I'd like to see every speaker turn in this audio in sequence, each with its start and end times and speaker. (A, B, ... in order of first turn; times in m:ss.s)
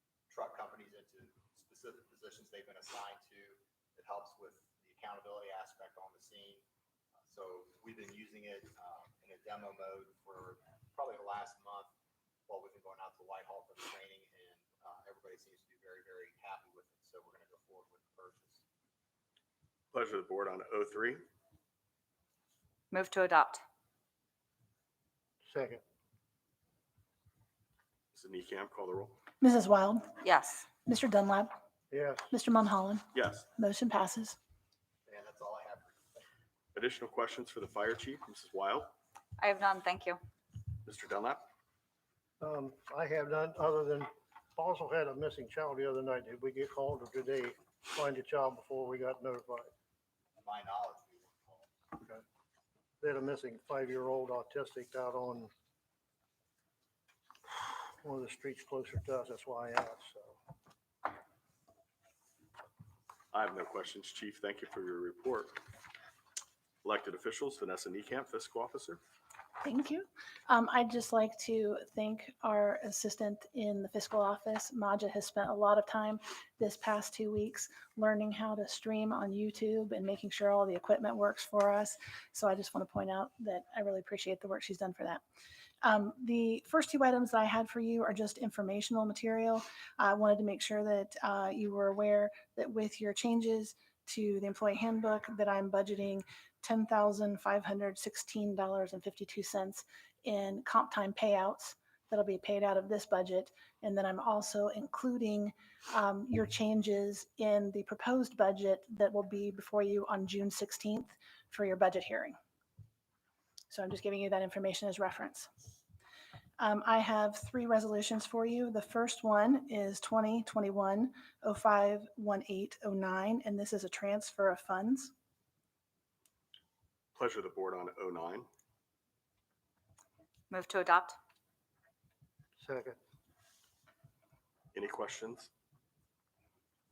0:00.3-0:06.6 A
0:07.2-0:11.9 A
0:12.5-0:18.6 A
0:19.9-0:21.2 B
0:22.9-0:23.6 C
0:25.4-0:25.8 D
0:28.1-0:29.2 B
0:29.4-0:30.2 E
0:30.2-0:30.6 C
0:30.8-0:31.5 E
0:31.9-0:32.3 D
0:32.3-0:34.4 E
0:33.1-0:33.5 B
0:35.0-0:36.2 A
0:36.7-0:38.9 B
0:39.4-0:40.2 C
0:40.8-0:41.5 B
0:42.4-0:49.7 D
0:50.4-0:51.7 A
0:52.0-0:52.2 D
0:53.0-0:55.5 D
0:57.6-1:00.4 D
1:03.3-1:05.6 B
1:06.8-1:09.0 B
1:09.6-1:25.2 E
1:25.8-1:52.4 E
1:53.7-1:55.5 E
1:56.6-2:05.1 E
2:07.1-2:08.5 B
2:10.5-2:11.2 C
2:12.6-2:13.0 D
2:14.7-2:15.5 B